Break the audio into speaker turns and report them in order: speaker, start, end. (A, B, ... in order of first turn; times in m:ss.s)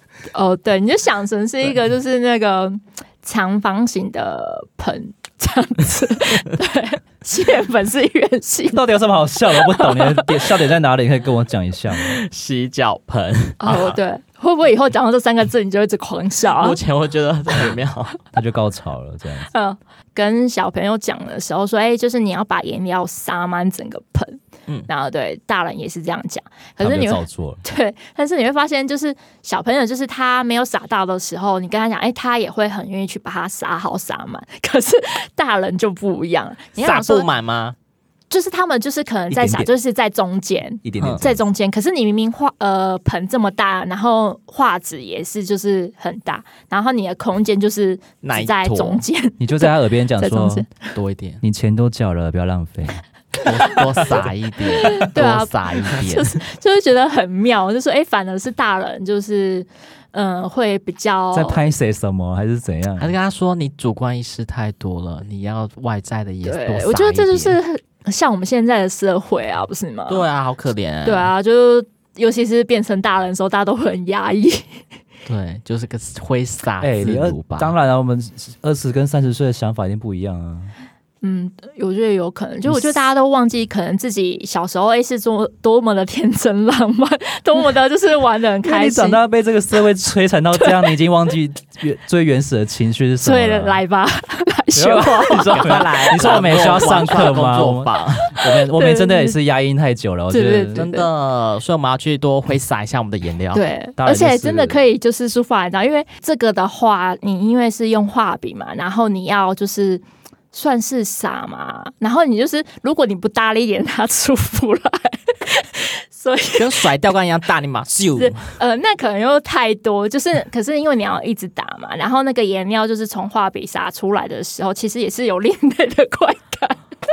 0:00.3-0:08.8 A
0:08.7-0:12.2 B
0:09.5-0:10.3 A
0:12.0-0:14.0 C
0:13.6-0:16.8 A
0:16.6-0:18.2 C
0:18.3-0:19.5 B
0:19.5-0:37.3 A
0:26.8-0:27.6 B
0:36.8-0:37.8 C
0:38.3-0:50.9 A
0:39.3-0:39.7 B
0:40.8-0:41.4 B
0:48.2-0:49.0 C
0:49.4-0:50.6 B
0:50.9-0:51.4 C
0:51.4-0:53.0 B
0:53.4-0:56.4 C
0:54.8-1:01.6 A
1:01.3-1:03.1 B
1:03.0-1:07.6 C
1:06.4-1:10.2 A
1:10.1-1:11.3 C
1:11.0-1:14.8 A
1:15.2-1:17.7 C
1:16.8-1:20.7 B
1:21.2-1:29.2 A
1:28.6-1:33.8 B
1:33.2-1:36.3 A
1:34.7-1:40.8 B
1:35.4-1:38.4 C
1:38.7-1:39.4 A
1:40.3-1:41.1 A
1:40.7-1:43.6 C
1:43.5-1:56.8 A
1:44.0-1:44.8 B
1:56.6-1:58.5 C
1:58.1-2:06.8 A